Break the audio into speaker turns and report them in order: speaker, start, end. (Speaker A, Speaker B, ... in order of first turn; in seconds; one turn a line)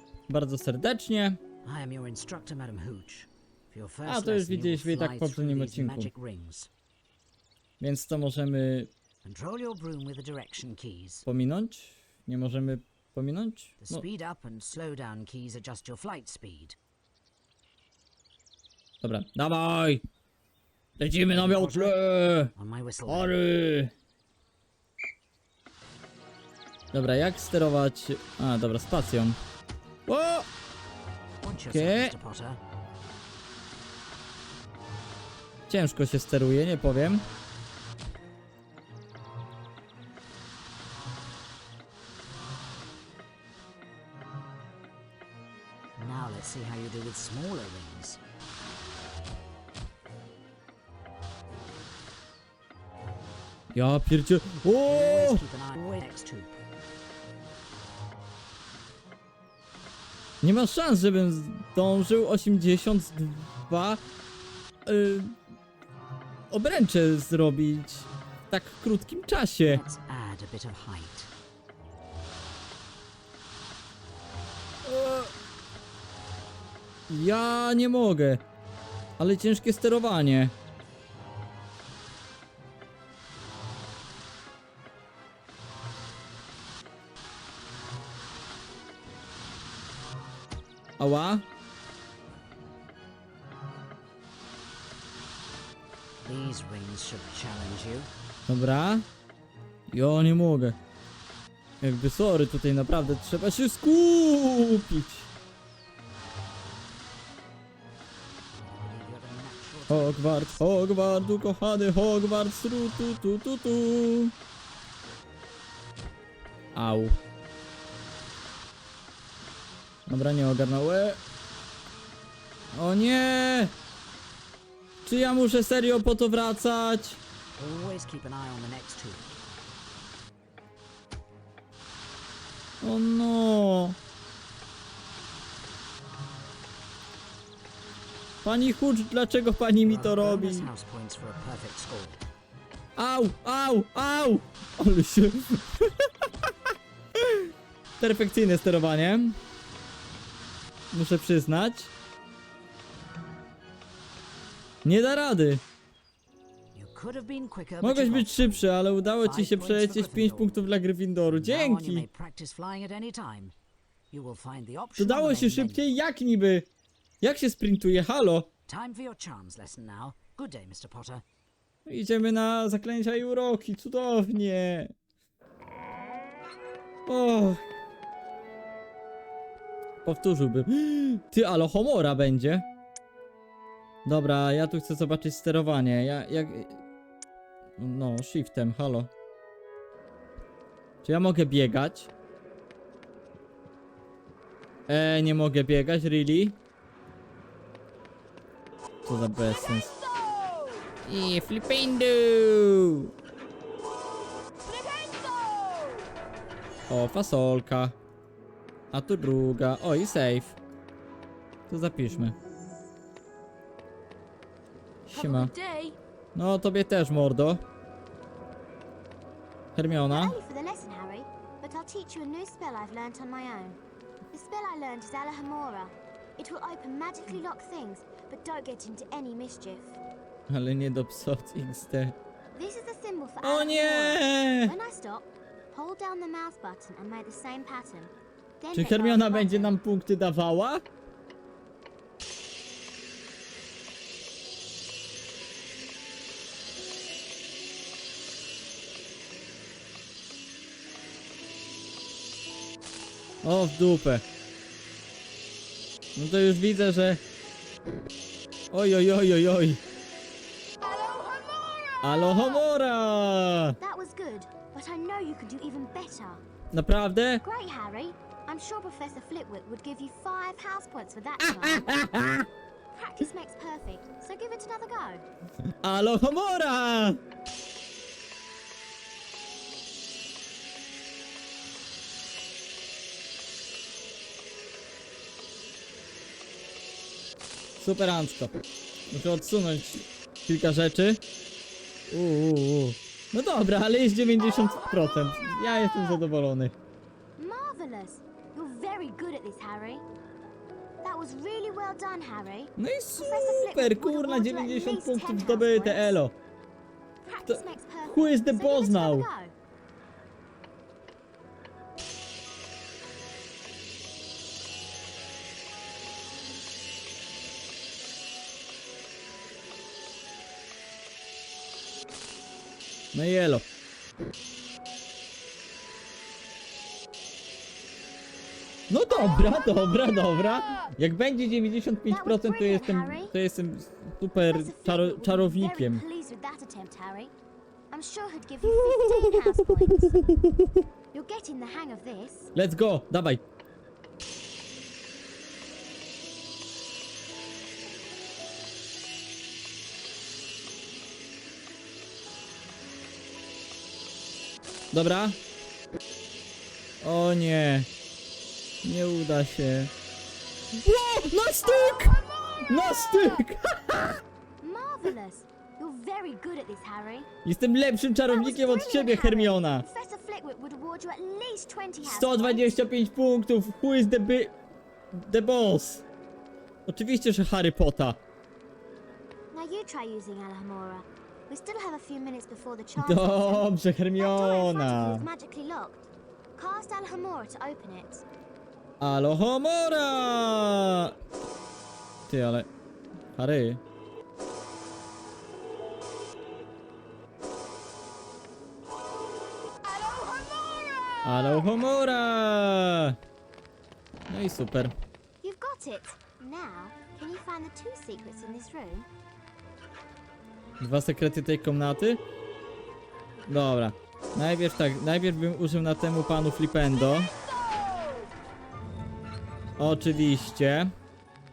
Speaker A: 0.3-1.4
Speaker B: 1.6-6.7
Speaker A: 4.0-6.1
Speaker A: 7.8-8.9
Speaker B: 9.2-11.2
Speaker A: 11.2-14.1
Speaker B: 13.8-16.8
Speaker A: 19.0-20.0
Speaker A: 21.0-22.5
Speaker B: 21.3-22.0
Speaker B: 22.5-23.4
Speaker A: 23.1-23.9
Speaker A: 26.9-29.4
Speaker A: 30.1-30.5
Speaker B: 31.4-32.6
Speaker A: 31.7-32.1
Speaker A: 35.7-37.2
Speaker B: 46.0-48.2
Speaker A: 53.7-55.4
Speaker B: 54.7-56.6
Speaker A: 60.4-64.0
Speaker A: 64.8-65.4
Speaker A: 66.5-69.8
Speaker B: 69.6-71.3
Speaker A: 74.8-75.3
Speaker A: 77.1-78.4
Speaker A: 79.2-80.5
Speaker A: 91.0-91.4
Speaker B: 96.2-98.1
Speaker A: 98.5-99.0
Speaker A: 99.9-100.8
Speaker A: 101.8-105.3
Speaker B: 108.8-110.7
Speaker A: 109.9-114.3
Speaker A: 116.7-117.2
Speaker A: 120.1-121.2
Speaker A: 122.7-123.7
Speaker A: 125.0-127.2
Speaker B: 127.6-129.3
Speaker A: 132.8-134.0
Speaker A: 138.4-140.7
Speaker B: 139.8-142.2
Speaker A: 143.0-146.5
Speaker A: 147.2-147.5
Speaker A: 148.0-149.4
Speaker A: 150.9-151.9
Speaker A: 154.8-155.6
Speaker B: 156.7-160.6
Speaker A: 157.8-162.1
Speaker B: 161.3-163.5
Speaker B: 164.1-165.8
Speaker A: 165.0-166.7
Speaker A: 167.2-168.5
Speaker B: 168.7-171.2
Speaker A: 171.8-174.9
Speaker A: 177.1-177.6
Speaker A: 180.0-182.7
Speaker A: 184.0-186.8
Speaker A: 187.8-189.1
Speaker A: 191.0-192.1
Speaker A: 194.9-196.6
Speaker A: 199.0-199.9
Speaker A: 201.0-203.1
Speaker A: 206.9-208.0
Speaker A: 208.9-210.6
Speaker A: 211.7-212.3
Speaker A: 215.1-215.5
Speaker C: 215.1-215.9
Speaker B: 215.6-215.9
Speaker A: 216.3-217.6
Speaker A: 219.8-220.4
Speaker C: 220.1-223.8
Speaker C: 224.3-230.0
Speaker A: 230.5-232.1
Speaker C: 232.5-239.7
Speaker A: 233.4-234.7
Speaker A: 238.7-240.8
Speaker A: 253.4-254.2
Speaker A: 256.1-257.2
Speaker A: 258.7-259.8
Speaker C: 260.9-261.5
Speaker A: 262.0-263.8
Speaker C: 263.8-266.4
Speaker A: 266.7-267.4
Speaker C: 267.4-271.9
Speaker A: 271.4-272.5
Speaker C: 272.9-275.2
Speaker A: 275.8-277.2
Speaker A: 287.8-288.5
Speaker A: 289.1-291.2
Speaker A: 292.1-296.8
Speaker C: 297.4-300.0
Speaker C: 301.0-306.2
Speaker A: 302.8-306.3
Speaker C: 307.2-309.5
Speaker A: 307.5-309.3
Speaker A: 323.1-323.6
Speaker A: 328.9-336.0
Speaker C: 332.1-333.3
Speaker C: 334.4-337.3
Speaker C: 337.9-340.2
Speaker A: 338.6-340.8
Speaker C: 341.1-342.5
Speaker A: 342.5-343.4
Speaker A: 354.9-355.4
Speaker A: 357.0-357.9
Speaker A: 358.8-359.9
Speaker A: 360.7-364.2
Speaker C: 364.6-367.3
Speaker A: 367.4-369.8
Speaker C: 368.2-372.7
Speaker A: 372.0-374.5
Speaker A: 375.1-376.0
Speaker A: 376.9-378.2
Speaker C: 379.5-388.2
Speaker A: 383.0-385.2
Speaker A: 389.0-391.1
Speaker A: 392.3-392.7
Speaker A: 393.4-393.8
Speaker A: 401.2-403.2
Speaker A: 404.3-404.9
Speaker C: 405.4-409.1
Speaker A: 410.8-412.2
Speaker A: 413.5-417.3
Speaker A: 419.8-420.9